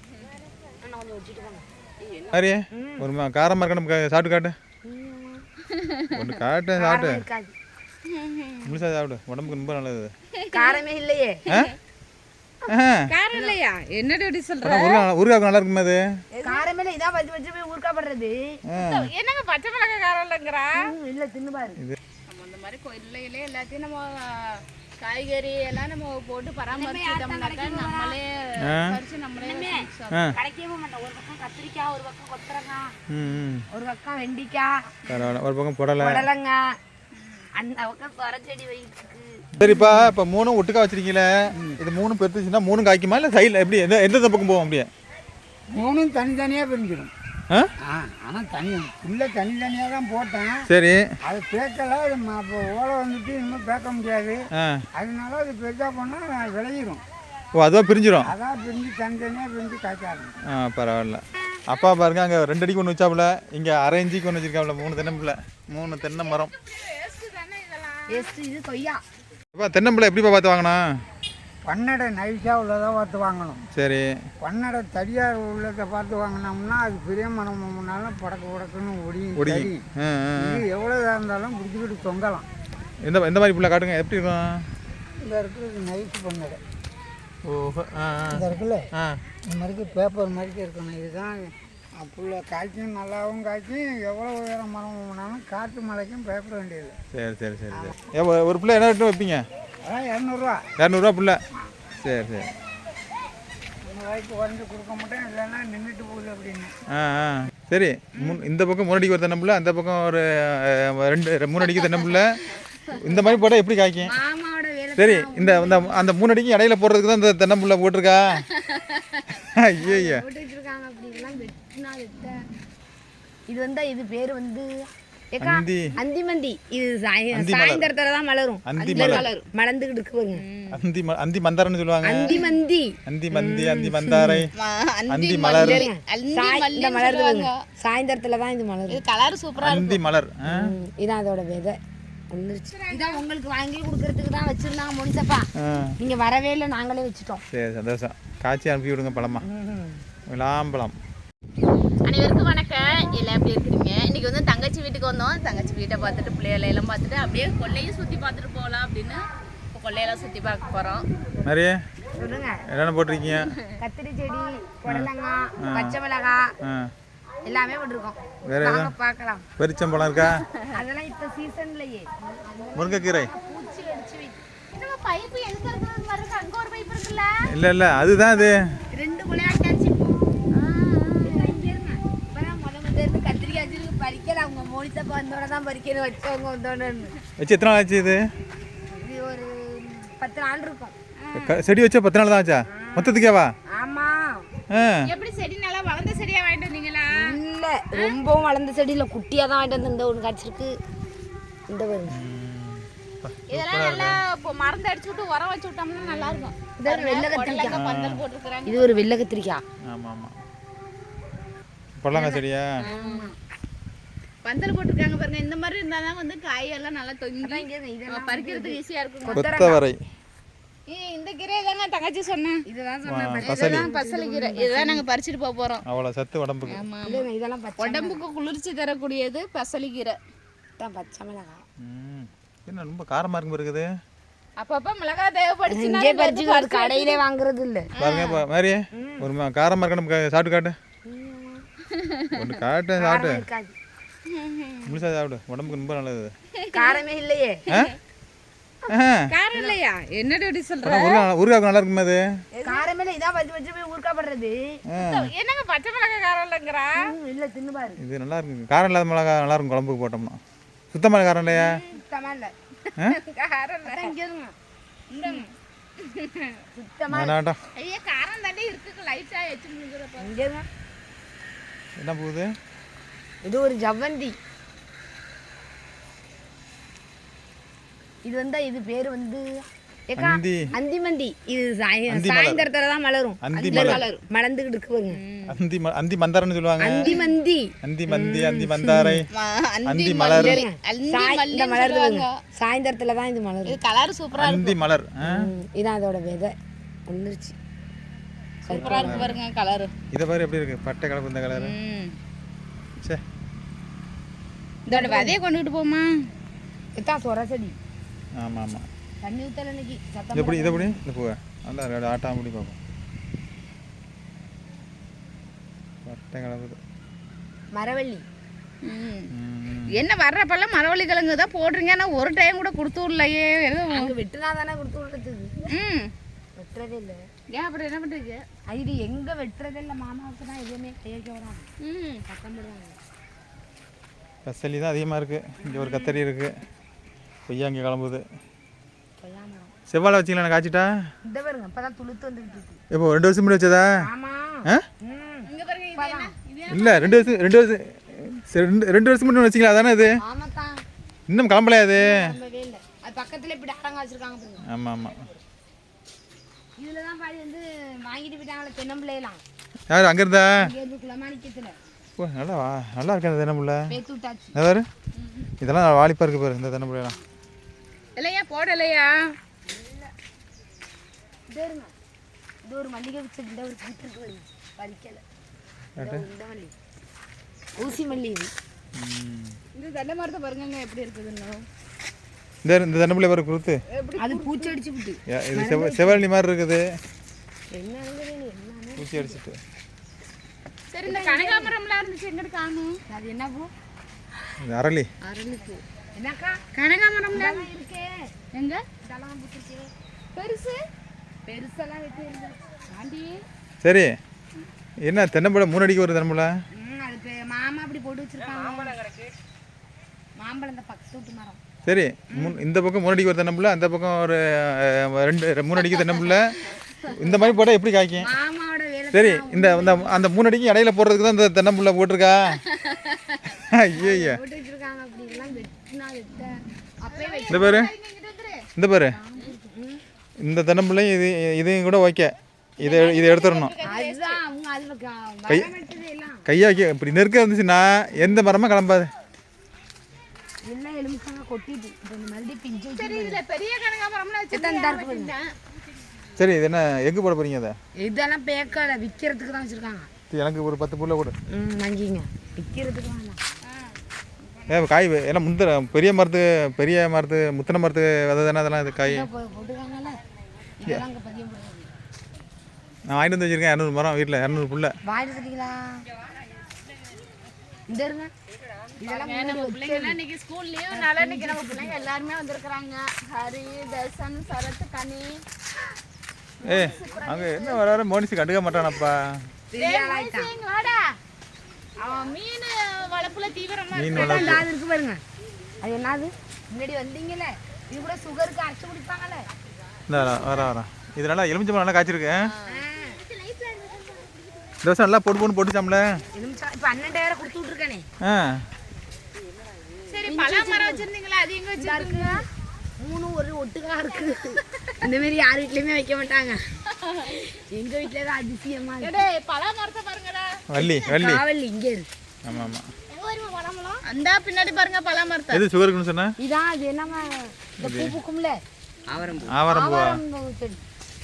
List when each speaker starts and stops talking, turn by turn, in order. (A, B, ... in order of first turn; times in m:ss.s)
0:00.8-0:01.6 A
0:02.3-0:04.6 B
0:02.7-0:03.1 A
0:04.8-0:05.4 A
0:05.7-0:06.4 C
0:06.1-0:07.2 B
0:06.8-0:07.5 A
0:08.0-0:08.8 C
0:08.6-0:10.1 B
0:10.3-0:10.8 C
0:10.5-0:11.4 A
0:11.5-0:11.8 C
0:12.7-0:13.1 B
0:13.1-0:15.1 C
0:14.6-0:16.0 B
0:16.3-0:16.6 C
0:16.4-0:18.6 A
0:18.7-0:19.1 B
0:18.8-0:20.9 C
0:20.8-0:21.8 A
0:22.3-0:30.3 C
0:26.7-0:28.2 A
0:28.6-0:29.0 B
0:29.4-0:32.9 A
0:33.1-0:33.7 B
0:33.7-0:34.8 A
0:35.1-0:36.3 B
0:36.0-0:36.7 A
0:37.1-0:37.5 C
0:37.6-0:40.1 A
0:39.5-0:44.9 B
0:39.6-0:39.9 D
0:41.5-0:41.8 D
0:45.7-0:47.1 D
0:47.8-0:50.7 D
0:50.7-0:51.1 B
0:51.2-0:54.4 D
0:54.5-0:54.9 B
0:54.9-0:57.0 D
0:57.6-0:58.3 B
0:58.2-1:00.4 D
1:00.5-1:06.5 B
1:06.4-1:08.3 C
1:08.1-1:09.0 A
1:09.5-1:10.9 B
1:11.6-1:13.6 D
1:13.7-1:14.2 B
1:14.4-1:19.8 D
1:19.4-1:20.6 B
1:20.4-1:22.5 D
1:23.0-1:24.7 B
1:25.2-1:26.6 D
1:27.4-1:29.2 B
1:28.3-1:28.9 D
1:29.4-1:37.0 D
1:37.1-1:39.5 B
1:39.8-1:40.7 D
1:40.8-1:41.4 B
1:42.0-1:42.5 B
1:43.8-1:46.7 D
1:46.9-1:52.4 B
1:48.2-1:48.4 A
1:51.8-1:52.2 C
1:52.9-1:54.2 B
1:54.0-1:56.0 A
1:55.0-1:58.5 B
1:58.5-1:59.2 C
1:59.4-2:00.2 B
1:59.8-2:02.4 A
2:03.5-2:04.8 A
2:05.3-2:10.4 A
2:05.4-2:06.0 B
2:07.3-2:07.9 B
2:08.7-2:09.3 B
2:08.9-2:09.5 C
2:10.3-2:10.8 C
2:10.7-2:12.4 B
2:12.0-2:14.5 A
2:12.3-2:12.6 C
2:13.1-2:14.5 B
2:14.5-2:17.6 C
2:15.1-2:15.9 B
2:15.5-2:19.0 A
2:18.9-2:20.0 C
2:19.6-2:20.7 B
2:20.4-2:21.8 A
2:22.3-2:27.4 A
2:22.7-2:23.2 C
2:25.6-2:26.0 B
2:27.5-2:29.5 B
2:29.4-2:30.0 A
2:30.3-2:31.0 B
2:32.0-2:41.1 C
2:41.4-2:41.8 B
2:42.2-2:42.6 A
2:42.7-2:43.5 B
2:43.3-2:43.6 C
2:43.8-2:46.6 A
2:45.6-2:46.0 B
2:46.6-2:46.9 B
2:47.4-2:49.5 A
2:48.5-2:48.9 B
2:49.6-2:50.4 B
2:50.2-2:50.6 C
2:50.7-2:54.4 A
2:52.8-2:53.3 B
2:54.7-2:57.3 C
2:57.4-2:58.8 B
2:58.9-3:00.2 A
3:00.5-3:01.6 C
3:01.2-3:07.2 A
3:07.4-3:08.3 B
3:08.9-3:11.0 A
3:11.3-3:13.5 B
3:12.7-3:14.5 A
3:14.7-3:15.1 B
3:15.0-3:17.4 C
3:17.1-3:20.8 A
3:21.7-3:22.2 A
3:22.1-3:24.2 B
3:23.5-3:29.0 C
3:26.1-3:27.8 A
3:27.7-3:28.2 B
3:28.7-3:29.6 A
3:29.9-3:30.4 B
3:32.0-3:32.8 B
3:32.2-3:33.4 A
3:32.8-3:33.3 C
3:34.4-3:39.4 C
3:37.4-3:39.8 A
3:39.3-3:40.0 B
3:40.9-3:42.6 C
3:42.7-3:45.0 A
3:43.1-3:43.9 B
3:43.4-3:45.8 C
3:45.8-3:46.8 B
3:46.6-3:47.2 C
3:47.0-3:48.2 A
3:47.8-3:50.2 C
3:50.8-3:51.6 A
3:51.8-3:53.9 B
3:54.6-3:57.2 C
3:55.7-3:57.9 A
3:58.0-3:58.4 C
3:58.0-4:00.8 B
3:58.9-3:59.3 A
4:01.1-4:01.7 A
4:01.9-4:02.5 C
4:02.3-4:03.4 B
4:03.0-4:03.8 A
4:04.3-4:05.0 C
4:04.9-4:06.3 B
4:06.6-4:07.0 C
4:06.7-4:07.6 A
4:07.7-4:07.9 B
4:07.7-4:08.0 C
4:08.9-4:09.3 B
4:09.3-4:11.3 C
4:10.8-4:12.3 B
4:12.6-4:12.8 C
4:12.6-4:14.8 A
4:14.9-4:15.3 B
4:15.0-4:17.1 C
4:17.0-4:18.0 A
4:18.0-4:20.4 B
4:20.9-4:21.8 B
4:21.5-4:22.5 A
4:22.9-4:24.2 C
4:23.8-4:24.5 A
4:25.1-4:26.6 C
4:26.7-4:27.4 A
4:27.1-4:27.6 B
4:27.8-4:30.3 C
4:30.2-4:30.7 A
4:32.0-4:32.5 B
4:33.4-4:34.4 A
4:38.2-4:45.2 A
4:40.2-4:40.7 B
4:42.1-4:42.7 B
4:43.4-4:44.0 B
4:43.6-4:44.2 C
4:45.1-4:45.6 C
4:45.5-4:47.0 B
4:46.8-4:49.2 A
4:47.8-4:49.3 B
4:49.3-4:52.4 C
4:49.9-4:50.6 B
4:50.4-4:53.8 A
4:53.7-4:54.8 C
4:54.4-4:55.5 B
4:55.2-4:56.6 A
4:57.1-4:57.6 A
4:58.7-4:59.3 A
4:58.7-4:59.3 B
4:58.7-4:59.9 C
5:00.1-5:01.8 B
5:01.5-5:02.2 C
5:04.9-5:06.2 C
5:04.9-5:05.4 A
5:07.0-5:07.8 A
5:08.4-5:08.9 B
5:09.2-5:11.0 A
5:10.3-5:12.8 B
5:16.0-5:16.8 B
5:17.7-5:18.2 A
5:18.8-5:19.3 C
5:19.3-5:20.0 B
5:19.9-5:24.2 C
5:23.9-5:25.7 A
5:25.7-5:26.1 C
5:26.6-5:27.2 A
5:27.5-5:28.4 C
5:28.7-5:31.7 A
5:31.8-5:32.2 C
5:32.3-5:33.0 A
5:34.4-5:36.6 B
5:35.7-5:36.2 C
5:37.5-5:38.2 B
5:39.2-5:39.7 A
5:39.9-5:41.1 B
5:41.2-5:42.8 A
5:42.9-5:44.0 B
5:44.0-5:46.3 A
5:45.5-5:47.4 C
5:46.7-5:50.2 B
5:50.2-5:50.8 A
5:51.3-5:52.4 B
5:52.0-5:54.6 A
5:54.7-5:55.3 B
5:56.8-5:59.4 A
5:59.9-6:00.7 B
6:00.5-6:01.8 A
6:02.2-6:03.9 B
6:03.9-6:04.6 A
6:04.6-6:04.9 B
6:05.2-6:05.5 C
6:05.6-6:07.2 B
6:08.2-6:09.4 C
6:09.7-6:10.1 A
6:11.5-6:11.9 A
6:12.6-6:15.2 A
6:16.0-6:16.3 B
6:16.0-6:16.7 A
6:17.8-6:18.5 A
6:19.0-6:19.6 B
6:19.7-6:21.7 C
6:22.6-6:23.8 B
6:23.9-6:24.8 C
6:24.2-6:26.2 A
6:25.3-6:26.9 B
6:27.7-6:29.4 A
6:29.0-6:29.6 B
6:30.9-6:33.0 C
6:31.0-6:31.7 A
6:33.1-6:33.7 A
6:34.6-6:35.1 B
6:35.2-6:35.8 C
6:36.2-6:36.6 A
6:36.7-6:37.7 C
6:37.3-6:38.2 A
6:38.5-6:38.8 C
6:39.0-6:39.9 A
6:40.4-6:40.8 C
6:41.5-6:42.6 A
6:42.9-6:43.3 C
6:43.8-6:44.2 B
6:45.0-6:46.5 B
6:46.8-6:49.0 A
6:50.4-6:51.6 A
6:51.8-6:56.6 B
6:55.9-6:56.7 C
6:57.1-6:58.3 B
6:58.2-7:00.2 A
6:59.1-7:02.6 B
7:02.6-7:03.4 C
7:03.6-7:04.4 B
7:04.0-7:07.9 A
7:07.1-7:08.7 C
7:07.5-7:07.9 B
7:08.8-7:09.2 B
7:09.2-7:10.0 A
7:10.4-7:13.8 B
7:12.8-7:14.4 C
7:13.8-7:16.5 A
7:15.5-7:15.8 B
7:16.5-7:19.1 B
7:20.6-7:23.4 A
7:23.0-7:25.6 C
7:24.5-7:25.3 A
7:26.4-7:27.8 B
7:28.0-7:30.1 A
7:30.3-7:31.4 B
7:31.5-7:33.4 A
7:33.7-7:34.8 C
7:34.7-7:39.3 B
7:39.0-7:40.2 A
7:40.8-7:41.9 A
7:43.1-7:45.0 B
7:45.1-7:46.0 A
7:47.9-7:48.3 A
7:49.0-7:50.2 A
7:49.1-7:55.4 C
7:50.9-7:52.0 A
7:56.6-7:57.8 C
7:56.6-7:59.4 B
7:56.7-7:57.3 A
7:59.7-8:00.5 A
7:59.8-8:01.2 C
8:02.0-8:04.6 C
8:03.9-8:04.6 B
8:04.1-8:05.2 A
8:05.8-8:09.5 A
8:10.1-8:12.5 B
8:10.2-8:10.6 C
8:12.5-8:14.4 C
8:12.7-8:13.2 A
8:14.8-8:16.2 B
8:16.3-8:18.1 A
8:18.2-8:18.6 B
8:20.1-8:22.4 C
8:20.3-8:21.1 A
8:21.8-8:22.4 A
8:23.0-8:26.6 A
8:26.9-8:27.3 C
8:27.2-8:29.2 A
8:29.0-8:30.6 C
8:30.7-8:31.4 B
8:30.8-8:32.1 A
8:32.4-8:32.9 B
8:33.2-8:34.0 A
8:34.0-8:35.6 C
8:35.5-8:36.3 B
8:36.4-8:38.6 A
8:37.8-8:38.2 B
8:39.1-8:39.4 C
8:39.4-8:40.2 B
8:39.6-8:40.8 A